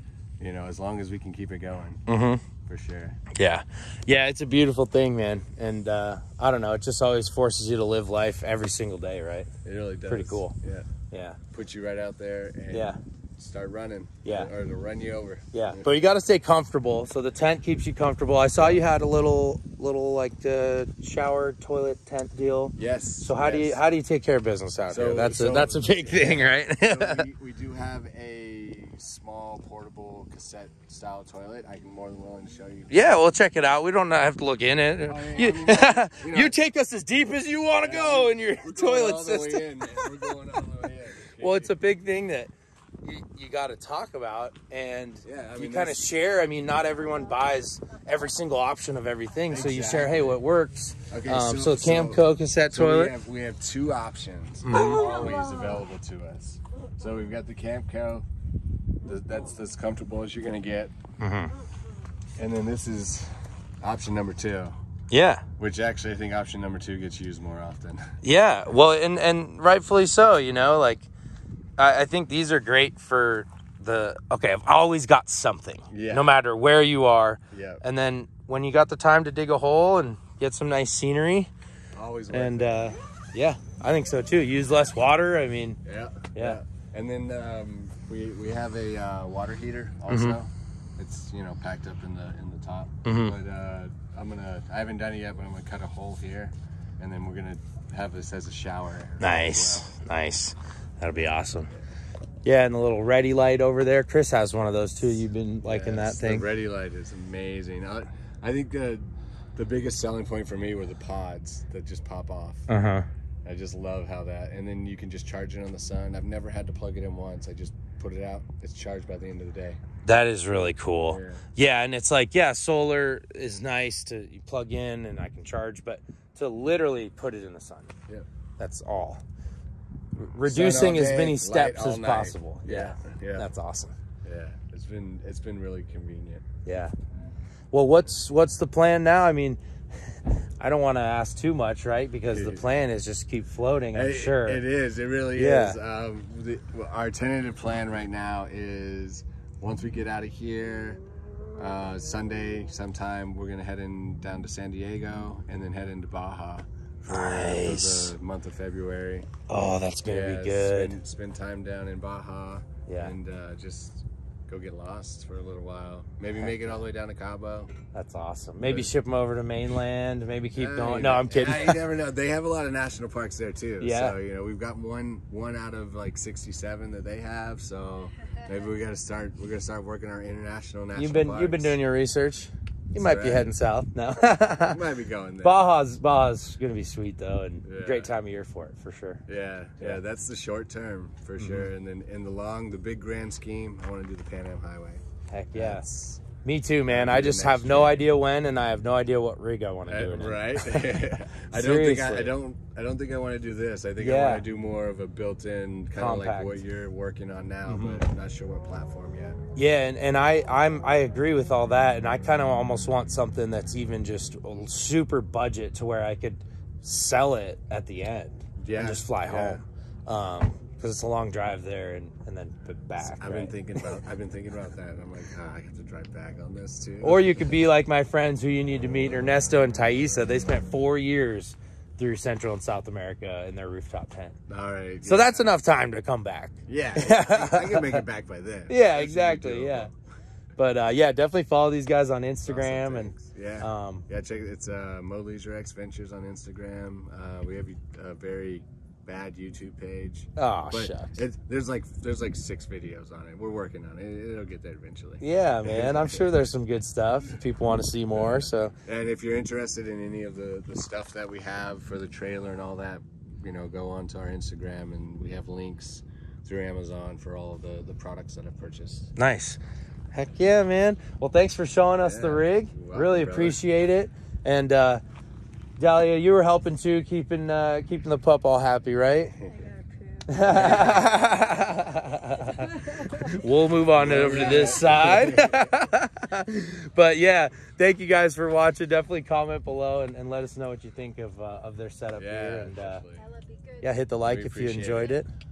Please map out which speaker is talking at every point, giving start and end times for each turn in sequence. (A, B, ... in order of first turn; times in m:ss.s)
0:00.4-0:02.0 A
0:02.1-0:02.4 B
0:02.7-0:03.2 A
0:03.4-0:09.5 B
0:09.6-0:10.9 A
0:10.1-0:10.6 B
0:11.1-0:11.4 B
0:11.5-0:15.9 A
0:12.7-0:13.0 B
0:14.2-0:14.5 B
0:15.5-0:27.3 B
0:18.6-0:18.8 A
0:22.8-0:23.8 A
0:24.9-0:33.0 A
0:32.9-0:40.4 B
0:35.1-0:36.6 A
0:37.8-0:41.7 A
0:41.4-0:53.2 B
0:45.2-0:46.0 A
0:49.5-0:50.4 A
0:51.1-0:58.3 A
0:54.6-0:55.2 B
0:59.0-1:01.0 A
1:01.2-1:01.5 B
1:02.4-1:04.7 A
1:05.1-1:05.4 B
1:05.6-1:08.0 A
1:08.2-1:11.1 B
1:11.8-1:21.5 B
1:15.9-1:16.3 A
1:17.5-1:17.8 A
1:21.9-1:23.0 A
1:22.3-1:25.8 B
1:25.8-1:39.9 A
1:30.1-1:30.4 B
1:33.0-1:33.4 B
1:39.2-1:41.7 B
1:42.4-1:46.5 B
1:45.6-1:52.7 A
1:52.7-1:53.1 B
1:53.4-1:59.8 A
2:00.0-2:07.9 B
2:01.1-2:01.4 A
2:08.6-2:09.2 B
2:10.2-2:13.9 B
2:10.4-2:13.5 A
2:14.2-2:16.4 A
2:16.6-2:16.9 B
2:17.7-2:24.6 B
2:22.3-2:22.6 A
2:23.9-2:31.0 A
2:25.4-2:25.8 B
2:31.6-2:39.3 A
2:37.1-2:38.2 B
2:39.5-2:41.0 B
2:40.0-2:47.7 A
2:42.9-2:43.2 B
2:46.4-2:46.8 B
2:47.9-2:51.8 B
2:48.6-2:48.9 A
2:50.6-3:01.8 A
2:53.8-2:54.2 B
3:01.0-3:04.8 B
3:03.0-3:03.6 A
3:04.6-3:05.6 A
3:05.4-3:09.2 B
3:07.6-3:08.1 A
3:09.3-3:15.0 A
3:11.4-3:11.7 B
3:15.3-3:22.3 B
3:15.5-3:16.2 A
3:16.9-3:18.1 A
3:19.9-3:29.4 A
3:24.0-3:24.4 B
3:26.0-3:26.6 B
3:27.7-3:28.0 B
3:29.6-3:43.6 B
3:38.6-3:39.6 A
3:43.0-3:47.6 A
3:47.0-3:54.4 B
3:54.5-3:55.5 A
3:55.0-3:58.0 B
3:56.7-3:59.9 A
3:58.7-3:59.9 B
4:00.6-4:04.0 B
4:02.5-4:16.4 A
4:10.4-4:11.2 B
4:15.2-4:18.7 B
4:18.1-4:29.1 A
4:29.2-4:29.6 B
4:30.1-4:35.0 B
4:32.0-4:33.6 A
4:35.8-4:39.4 B
4:40.3-4:53.0 B
4:40.4-4:41.1 A
4:44.0-4:45.6 A
4:52.2-4:53.3 A
4:53.8-4:55.3 B
4:54.3-4:55.2 A